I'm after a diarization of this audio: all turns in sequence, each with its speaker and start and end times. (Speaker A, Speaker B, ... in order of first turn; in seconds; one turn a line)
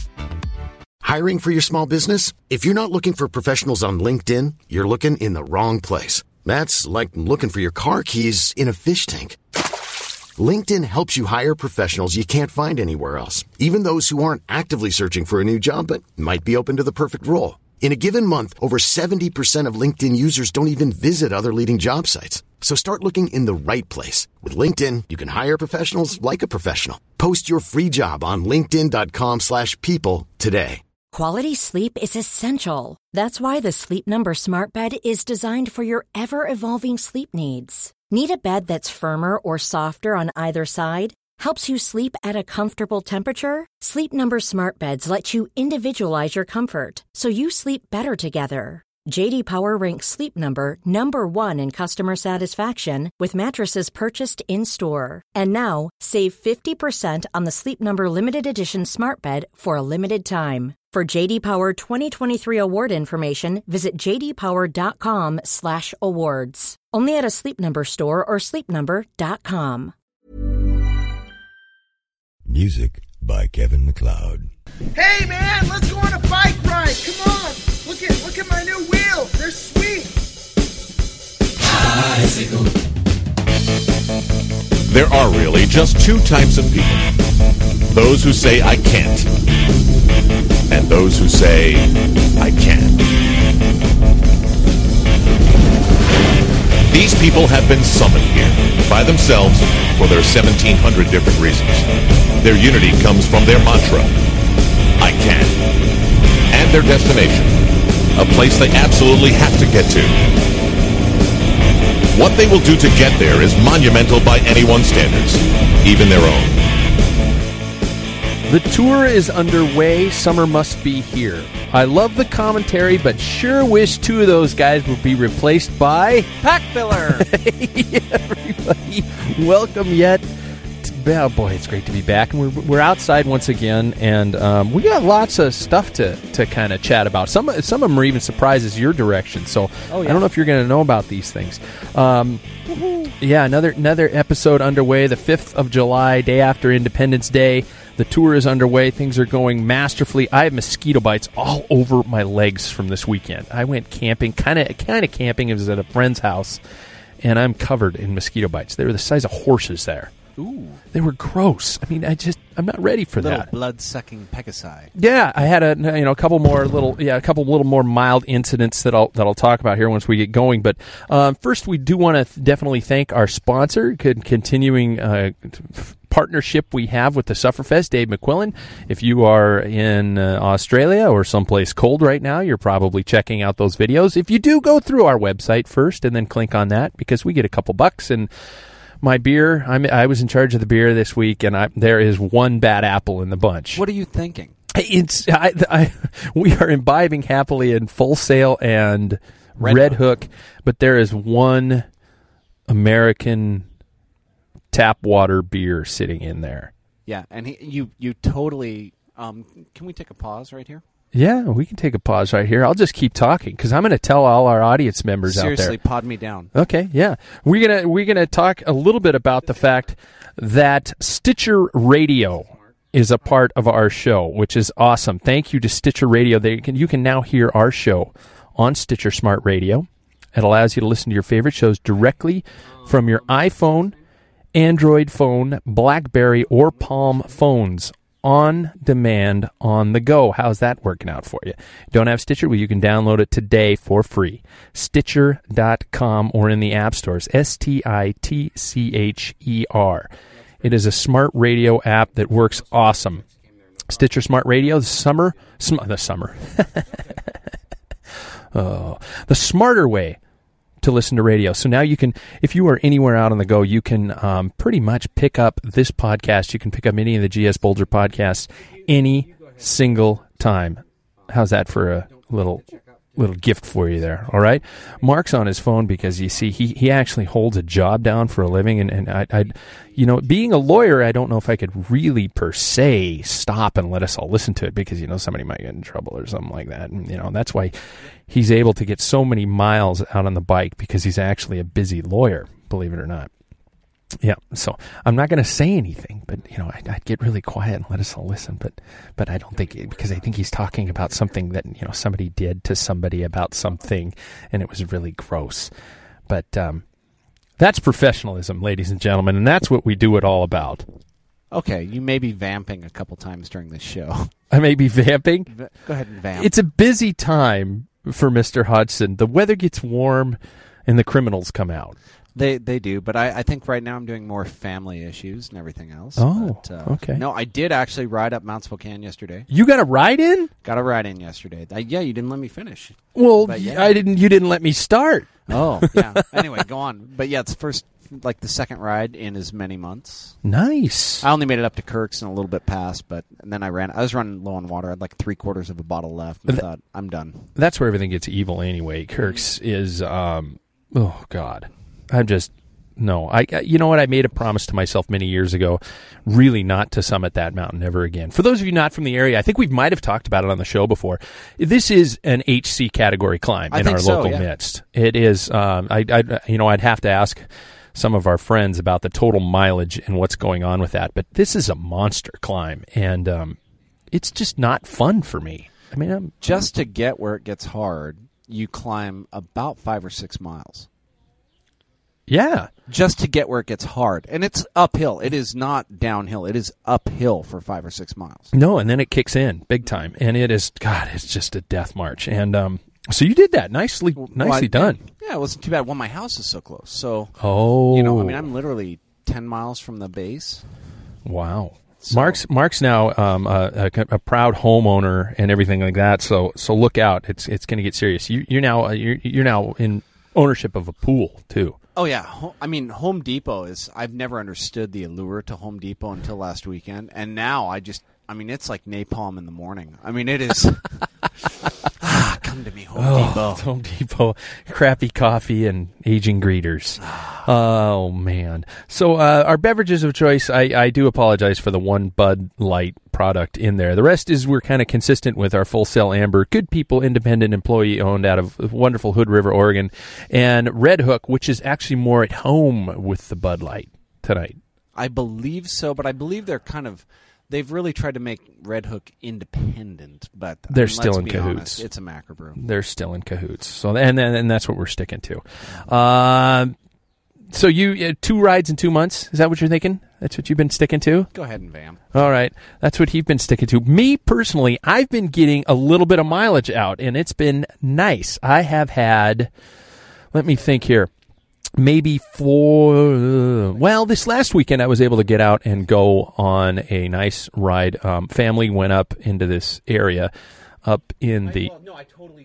Speaker A: 1.0-9.4
Speaker A: 10.4-30.8
Speaker B: 31.1-69.9
Speaker C: 72.5-74.5
Speaker D: 75.0-80.1
Speaker E: 81.8-82.5
Speaker E: 84.9-87.0
Speaker E: 87.9-89.3
Speaker E: 90.7-93.0
Speaker E: 96.9-101.9
Speaker E: 102.4-104.1
Speaker E: 105.0-105.6
Speaker E: 106.5-107.6
Speaker E: 108.2-110.2
Speaker E: 112.1-116.6
Speaker F: 118.5-126.4
Speaker G: 126.4-127.3
Speaker F: 127.1-130.2
Speaker F: 130.8-142.4
Speaker G: 139.9-140.2
Speaker G: 142.7-143.1
Speaker F: 143.2-156.6
Speaker F: 157.2-160.1
Speaker G: 160.4-160.8
Speaker F: 160.9-163.5
Speaker G: 163.2-164.9
Speaker F: 165.0-188.3
Speaker F: 189.0-193.8
Speaker G: 193.8-194.6
Speaker F: 194.7-201.9
Speaker G: 199.6-200.0
Speaker F: 202.7-203.7
Speaker F: 204.7-206.7
Speaker G: 207.1-210.8
Speaker F: 211.1-215.8
Speaker G: 215.3-216.5
Speaker F: 216.5-233.9
Speaker F: 234.5-253.2
Speaker F: 253.9-257.0
Speaker F: 258.5-260.2
Speaker F: 260.8-287.8
Speaker F: 288.3-293.3
Speaker F: 294.2-305.7
Speaker F: 306.3-306.8
Speaker F: 307.6-310.9
Speaker G: 311.5-314.3
Speaker F: 314.5-315.5
Speaker G: 315.5-316.5
Speaker F: 316.3-322.0
Speaker G: 322.4-329.5
Speaker F: 326.2-327.2
Speaker F: 329.5-330.5
Speaker G: 330.6-334.0
Speaker F: 333.1-336.1
Speaker G: 335.5-340.4
Speaker F: 340.4-341.3
Speaker G: 341.2-347.5
Speaker F: 347.6-373.6
Speaker G: 363.7-364.5
Speaker F: 374.1-376.5
Speaker G: 376.4-380.9
Speaker F: 382.3-382.7
Speaker G: 382.9-388.5
Speaker F: 388.5-395.0
Speaker G: 394.2-397.4
Speaker F: 397.4-398.5
Speaker G: 397.9-400.6
Speaker F: 401.2-411.8
Speaker G: 402.0-402.4
Speaker G: 412.0-421.0
Speaker G: 422.0-423.7
Speaker F: 422.9-444.6
Speaker G: 427.1-427.4
Speaker G: 444.9-452.6
Speaker F: 450.7-451.9
Speaker F: 452.6-456.7
Speaker F: 457.5-461.3
Speaker G: 461.3-462.1
Speaker F: 462.1-469.5
Speaker F: 470.3-471.1
Speaker F: 471.8-480.3
Speaker F: 480.8-481.9